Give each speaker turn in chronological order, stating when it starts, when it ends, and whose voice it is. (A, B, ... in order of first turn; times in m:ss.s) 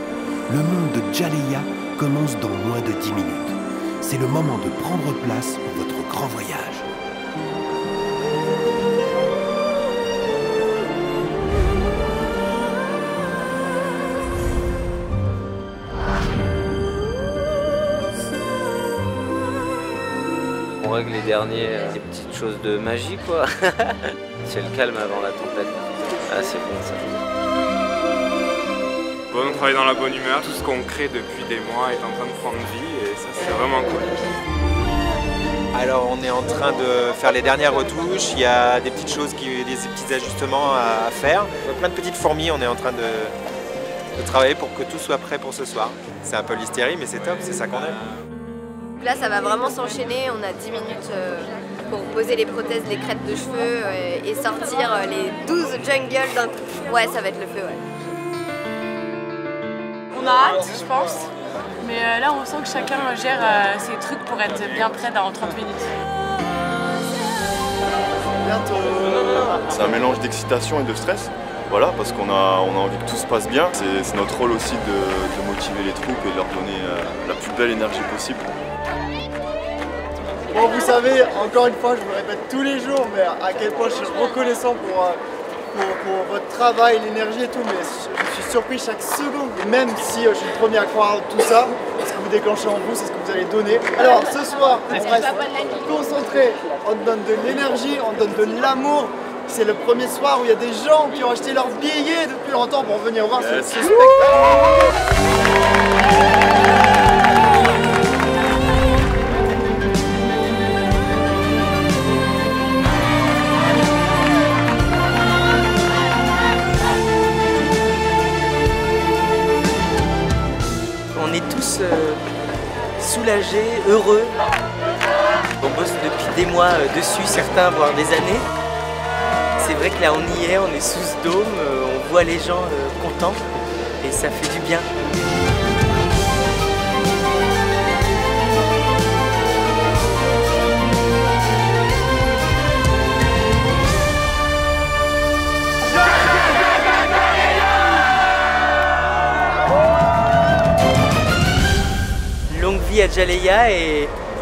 0:00.5-0:06.9 A
0:20.8-0:27.2 B
0:29.3-0:34.2 C
0:35.7-0:43.3 D
0:44.2-0:48.0 D
0:49.0-0:57.8 E
1:00.1-1:01.3 F
1:01.8-1:05.9 F
1:08.4-1:09.6 G
1:09.7-1:18.5 H
1:20.5-1:25.2 G
1:25.7-1:44.3 G
2:01.1-2:02.2 I
2:03.0-2:04.3 I
2:05.6-2:08.4 I
2:09.6-2:13.4 I
2:14.0-2:14.9 I
2:32.5-2:34.1 I